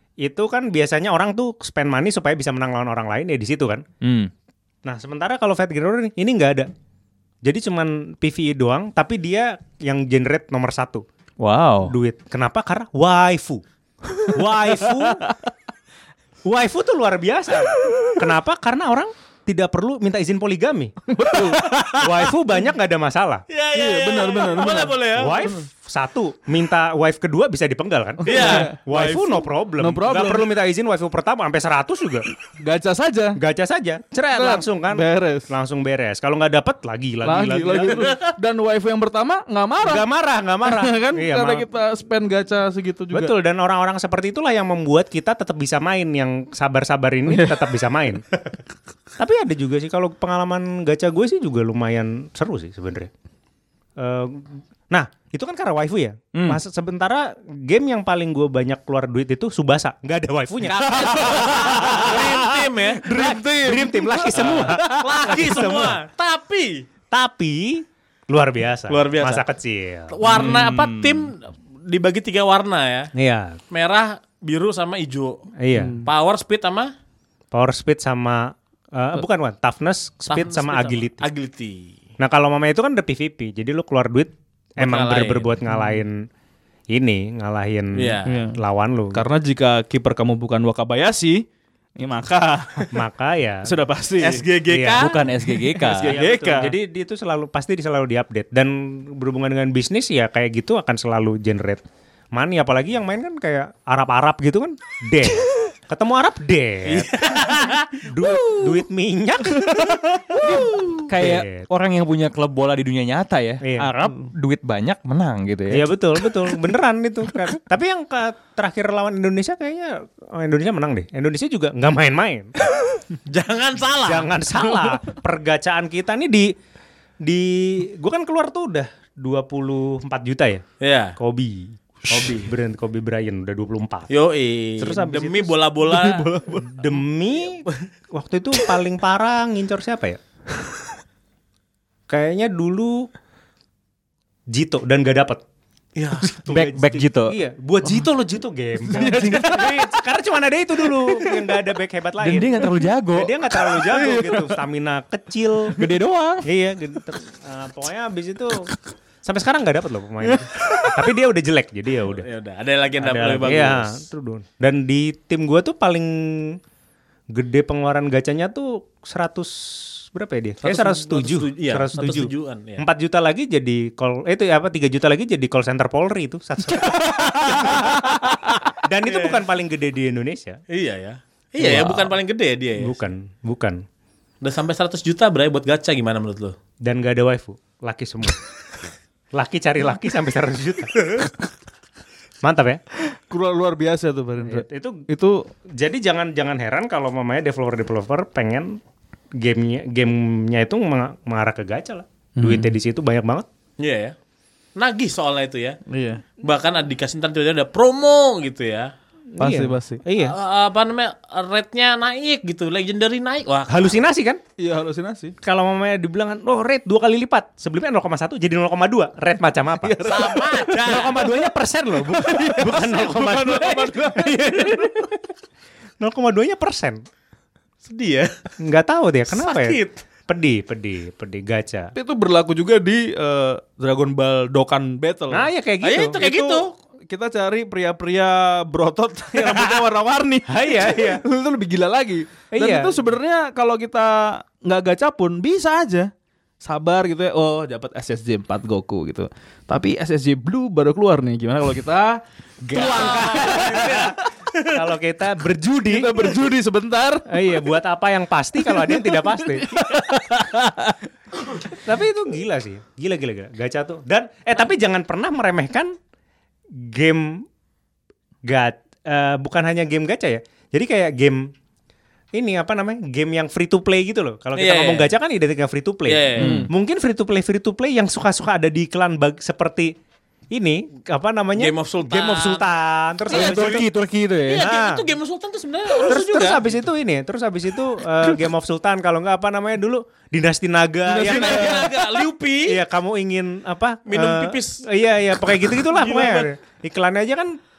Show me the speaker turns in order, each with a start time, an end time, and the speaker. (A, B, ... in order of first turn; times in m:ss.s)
0:00.2-0:03.8 A
0:04.0-0:04.3 B
0:04.8-0:06.7 A
0:07.4-0:11.0 A
0:11.4-0:11.9 B
0:11.8-0:13.6 A
0:14.3-0:15.2 A
0:15.0-0:15.3 C
0:16.4-0:23.4 A
0:21.1-0:22.3 C
0:23.5-0:25.6 D
0:23.7-0:25.6 C
0:25.1-0:32.2 A
0:28.2-0:30.5 C
0:28.2-0:28.7 D
0:32.6-0:33.4 C
0:33.4-0:38.2 A
0:34.3-0:35.5 C
0:37.2-0:40.0 C
0:37.8-0:38.2 D
0:39.8-0:41.6 A
0:40.6-0:43.3 C
0:43.1-0:48.2 A
0:47.3-0:47.7 C
0:49.2-0:53.1 A
0:54.0-1:06.0 A
1:00.7-1:03.1 D
1:01.1-1:02.4 C
1:03.0-1:05.4 C
1:04.4-1:06.8 D
1:07.1-1:10.6 A
1:08.9-1:09.4 D
1:10.1-1:13.1 D
1:10.3-1:11.3 B
1:13.1-1:13.6 A
1:13.7-1:15.5 D
1:15.6-1:16.0 A
1:15.8-1:16.1 C
1:16.0-1:16.9 D
1:17.5-1:21.2 A
1:20.3-1:21.9 D
1:22.2-1:26.2 A
1:24.8-1:25.5 D
1:25.7-1:26.0 C
1:26.9-1:29.2 A
1:28.0-1:28.4 D
1:28.2-1:28.6 C
1:29.1-1:31.4 C
1:32.0-1:33.0 C
1:32.9-1:33.7 A
1:33.6-1:34.5 C
1:34.2-1:35.2 D
1:34.7-1:35.0 A
1:34.9-1:36.1 B
1:35.4-1:36.7 C
1:36.0-1:41.8 A
1:42.3-1:51.7 A
1:46.9-1:48.0 D
1:50.4-1:55.9 B
1:53.6-1:53.9 A
1:55.7-2:02.6 A
2:03.2-2:04.3 D
2:04.1-2:06.5 A
2:07.2-2:10.6 A
2:10.8-2:11.1 D
2:11.2-2:14.1 A
2:12.1-2:12.5 D
2:14.1-2:16.3 D
2:14.8-2:15.6 A
2:15.8-2:16.8 C
2:16.6-2:20.2 A
2:22.1-2:23.1 A
2:24.5-2:25.4 A
2:26.0-2:26.5 D
2:26.4-2:27.3 B
2:26.4-2:32.6 A
2:28.9-2:29.9 C
2:28.9-2:29.4 B
2:31.0-2:31.6 C
2:32.2-2:33.4 B
2:33.1-2:35.8 A
2:33.7-2:34.6 C
2:35.8-2:36.5 B
2:36.4-2:38.7 A
2:39.2-2:42.2 A
2:40.6-2:40.8 C
2:42.1-2:44.0 D
2:43.0-2:46.6 A
2:47.3-2:58.3 A
2:50.6-2:52.8 D
2:57.0-2:57.9 D
2:58.9-3:00.6 A
2:59.1-2:59.4 D
3:00.7-3:02.9 D
3:01.6-3:02.2 A
3:02.8-3:03.8 A
3:04.4-3:06.6 D
3:06.8-3:08.4 A
3:09.3-3:11.0 A
3:12.4-3:12.8 A
3:13.1-3:15.5 C
3:14.4-3:15.1 A
3:15.7-3:18.8 A
3:19.4-3:23.4 A
3:22.4-3:22.7 C
3:23.8-3:24.1 D
3:24.8-3:25.8 D
3:25.9-3:26.2 C
3:26.4-3:28.9 D
3:29.4-3:30.4 A
3:29.4-3:30.0 C
3:30.2-3:34.0 D
3:33.7-3:34.4 A
3:34.6-3:35.4 C
3:35.4-3:45.2 A
3:39.8-3:40.8 C
3:40.0-3:41.3 D
3:42.1-3:44.9 C
3:46.0-3:47.0 A
3:47.8-3:48.3 D
3:48.6-3:51.9 A
3:49.3-3:50.0 D
3:51.9-3:55.5 C
3:55.3-3:56.2 A
3:55.8-3:56.7 D
3:56.2-4:06.1 C
3:59.4-3:59.8 A
4:00.5-4:01.2 A
4:02.5-4:03.0 A
4:06.6-4:14.3 C
4:12.7-4:14.2 D
4:12.8-4:14.1 A
4:14.6-4:16.4 A
4:15.9-4:17.2 C
4:17.3-4:19.7 A
4:18.7-4:21.9 C
4:21.7-4:26.0 A
4:26.8-4:27.4 A
4:28.4-4:31.4 A
4:32.4-4:39.9 A
4:34.6-4:35.1 D
4:36.1-4:36.6 D
4:36.4-4:36.7 B
4:36.4-4:36.7 C
4:40.5-4:43.8 A
4:41.6-4:42.6 D
4:43.3-4:43.8 D
4:43.3-4:44.6 B
4:44.5-4:46.6 D
4:44.6-4:45.0 A
4:46.0-4:57.6 A
4:51.1-4:52.0 C
4:51.2-4:52.8 D
4:54.1-4:54.8 D
4:55.9-4:56.5 D